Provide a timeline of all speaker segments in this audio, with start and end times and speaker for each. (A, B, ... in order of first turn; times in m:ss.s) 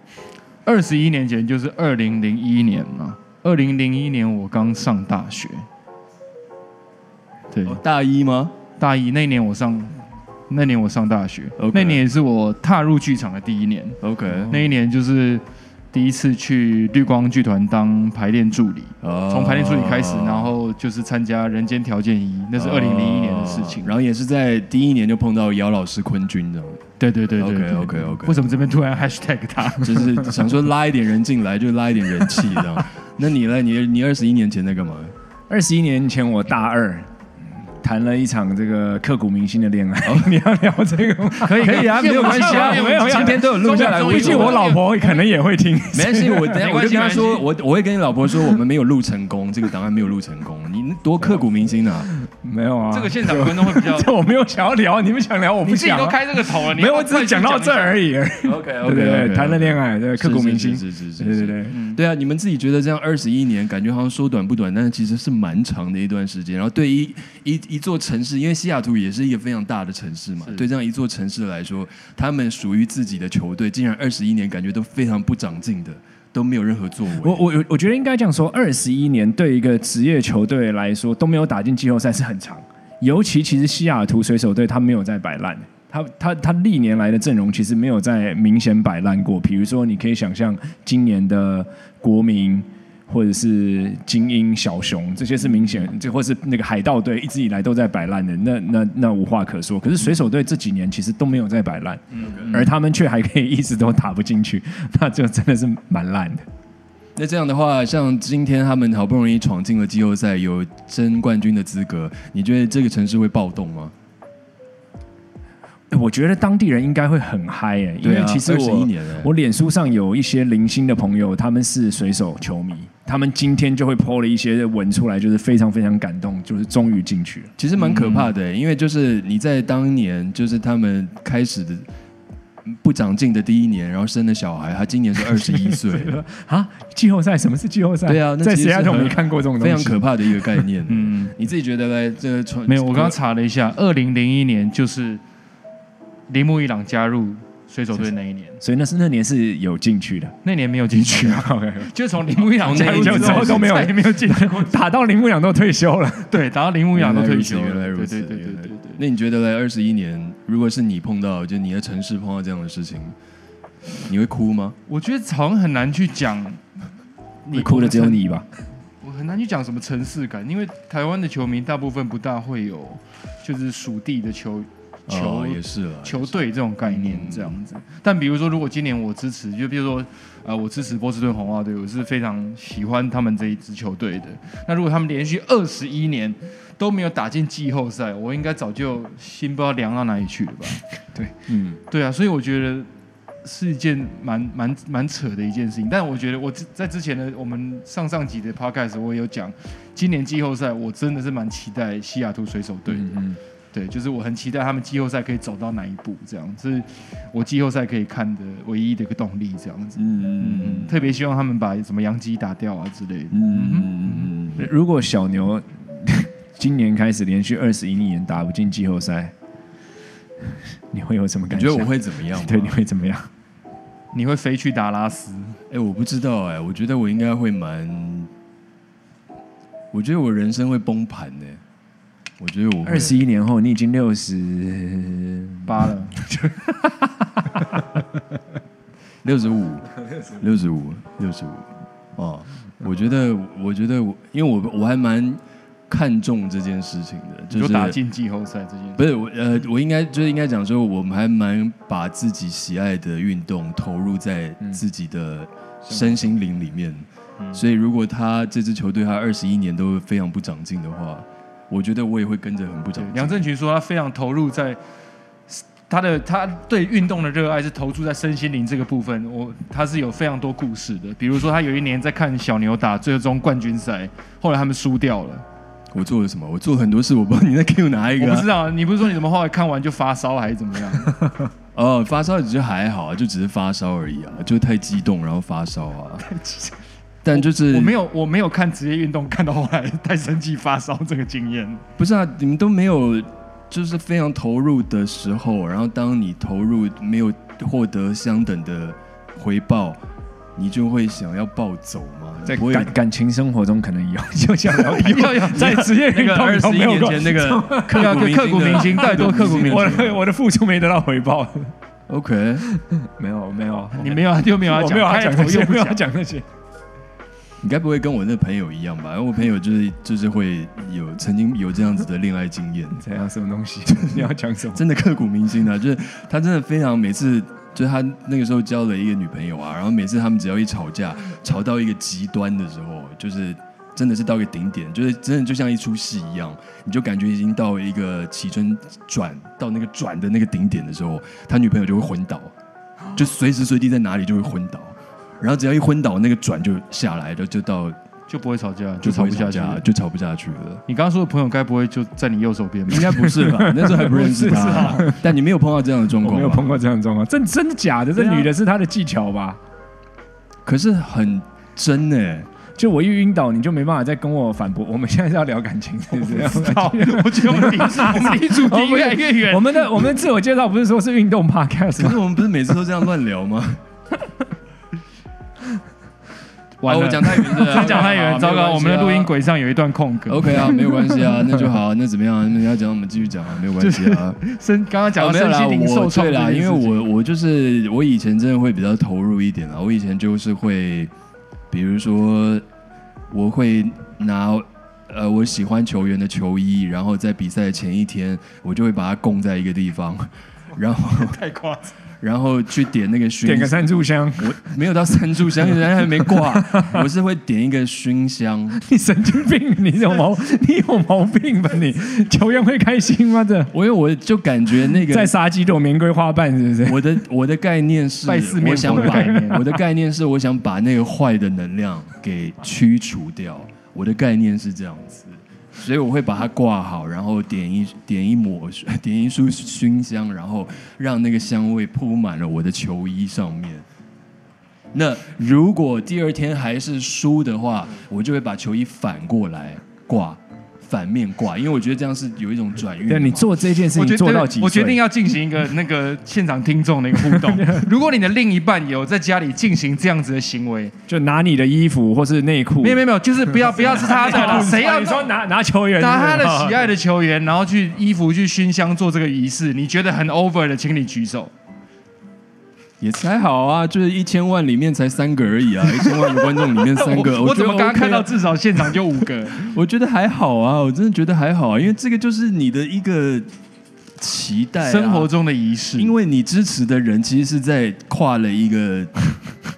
0:00.6-0:05.7 A
0:07.5-0:07.8 A
0:07.6-0:08.5 B
0:08.8-0:23.9 A
0:11.6-0:12.0 B
0:14.0-0:14.6 B
0:19.0-0:20.5 B
0:22.6-0:26.8 B
0:27.0-0:30.3 A
0:27.4-0:28.5 B
0:29.8-0:35.1 B
0:35.5-0:46.6 C
0:40.0-0:40.3 B
0:41.4-0:45.2 A
0:41.6-0:44.7 B
0:45.9-0:52.1 B
0:46.4-0:47.5 A
0:52.1-1:01.7 C
0:52.9-0:54.1 A
0:55.6-0:58.0 A
0:58.4-1:17.4 B
1:01.7-1:02.0 A
1:17.2-1:46.4 C
1:42.1-1:42.7 A
1:42.2-1:42.5 B
1:47.2-1:53.9 B
1:55.9-2:07.5 C
1:58.0-1:59.3 B
2:07.6-2:11.9 B
2:07.8-2:08.2 A
2:12.6-2:16.1 B
2:15.3-2:20.6 C
2:18.1-2:23.2 B
2:20.9-2:21.3 A
2:22.7-2:25.2 A
2:26.3-2:28.6 A
2:28.6-2:30.4 C
2:30.4-2:34.7 A
2:31.1-2:31.9 C
2:32.6-2:33.9 B
2:32.6-2:36.3 C
2:36.3-2:39.0 A
2:36.9-2:43.2 B
2:44.0-2:44.8 B
2:44.9-2:46.6 A
2:47.4-2:48.2 A
2:47.5-2:48.5 C
2:49.0-3:10.8 A
2:55.1-2:57.6 B
3:11.5-3:11.8 B
3:11.9-3:12.9 A
3:13.4-3:23.1 A
3:22.9-3:23.4 C
3:23.7-3:34.3 A
3:30.0-3:30.9 B
3:33.3-3:34.7 B
3:34.6-3:39.3 C
3:40.5-3:43.3 C
3:41.5-3:42.7 B
3:44.1-3:45.6 A
3:45.7-3:48.3 B
3:49.9-3:51.6 B
3:52.4-3:53.2 B
3:52.8-3:58.0 C
3:55.6-3:56.1 A
3:59.2-4:08.0 B
4:07.5-4:09.0 A
4:09.0-4:23.4 B
4:15.9-4:16.2 C
4:23.0-4:24.8 A
4:25.5-4:35.4 A
4:35.9-4:38.5 B
4:38.2-4:41.2 A
4:41.7-4:46.2 B
4:46.2-4:46.7 A
4:47.2-4:47.9 B
4:47.3-4:51.8 A
4:52.0-5:00.0 B
5:00.6-5:02.9 B
5:02.4-5:11.7 C
5:04.8-5:05.9 A
5:05.5-5:10.2 B
5:07.8-5:10.1 A
5:12.1-5:12.6 B
5:12.6-5:16.4 C
5:14.0-5:16.0 A
5:17.6-5:23.0 B
5:23.0-5:24.8 C
5:23.9-5:42.5 B
5:43.1-5:48.0 B
5:48.3-5:49.8 A
5:49.0-5:50.8 B
5:50.9-5:53.3 A
5:52.9-5:56.7 B
5:53.2-5:55.2 C
5:54.0-5:55.0 A
5:56.2-5:59.6 C
5:58.2-5:58.5 A
6:00.6-6:02.5 B
6:02.8-6:12.2 C
6:06.1-6:10.2 A
6:12.0-6:13.8 B
6:16.8-6:21.0 A
6:16.8-6:19.3 B
6:20.3-6:24.4 B
6:23.8-6:27.0 A
6:25.2-6:31.1 B
6:31.7-6:32.6 B
6:33.3-6:41.4 B
6:41.1-6:41.9 A
6:42.2-6:43.9 B
6:43.4-6:44.6 C
6:44.4-6:48.8 B
6:46.2-6:47.0 C
6:48.8-6:53.7 C
6:53.7-6:55.3 B
6:55.0-6:57.2 C
6:56.8-7:13.8 B
6:58.3-6:59.8 A
6:59.0-6:59.3 C
7:14.9-7:23.5 B
7:23.1-7:25.0 C
7:23.9-7:30.9 A
7:27.2-7:27.9 C
7:31.1-7:36.8 C
7:32.8-7:35.3 A
7:36.0-7:41.5 A
7:43.0-7:48.3 B
7:46.2-7:49.7 A
7:49.5-7:53.5 B
7:54.2-7:55.3 B
7:54.8-7:56.1 A
7:56.0-7:59.4 B